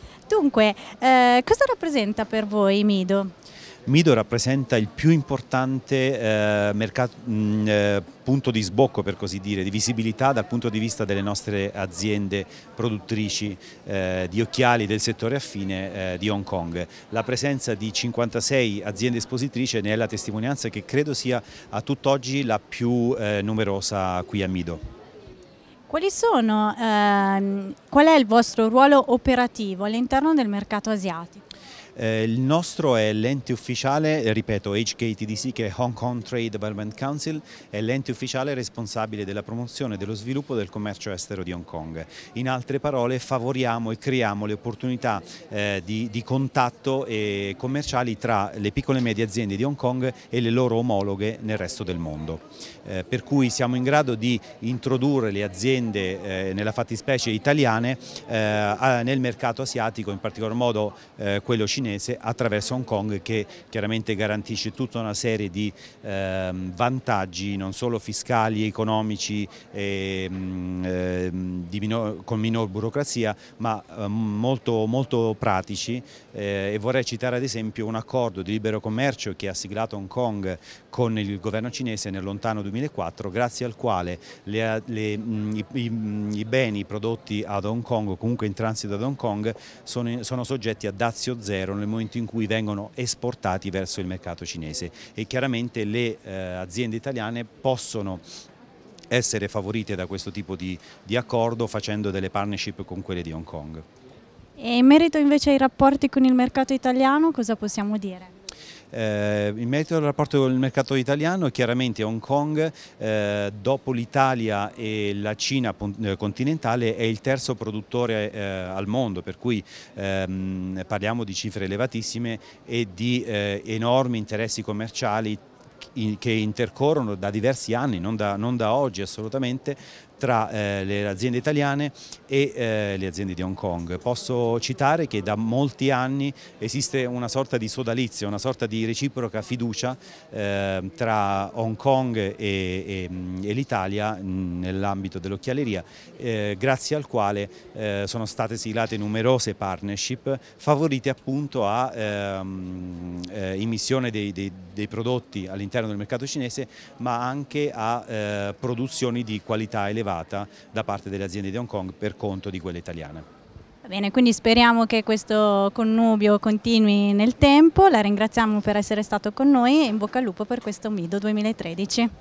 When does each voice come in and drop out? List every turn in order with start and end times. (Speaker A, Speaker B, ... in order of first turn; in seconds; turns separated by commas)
Speaker A: 0.3-3.3, Speaker B: 3.9-24.8, Speaker A: 25.9-31.4, Speaker B: 31.9-98.2, Speaker B: 99.1-103.8, Speaker A: 104.6-108.3, Speaker B: 108.9-125.4, Speaker B: 125.9-163.2, Speaker A: 163.8-172.1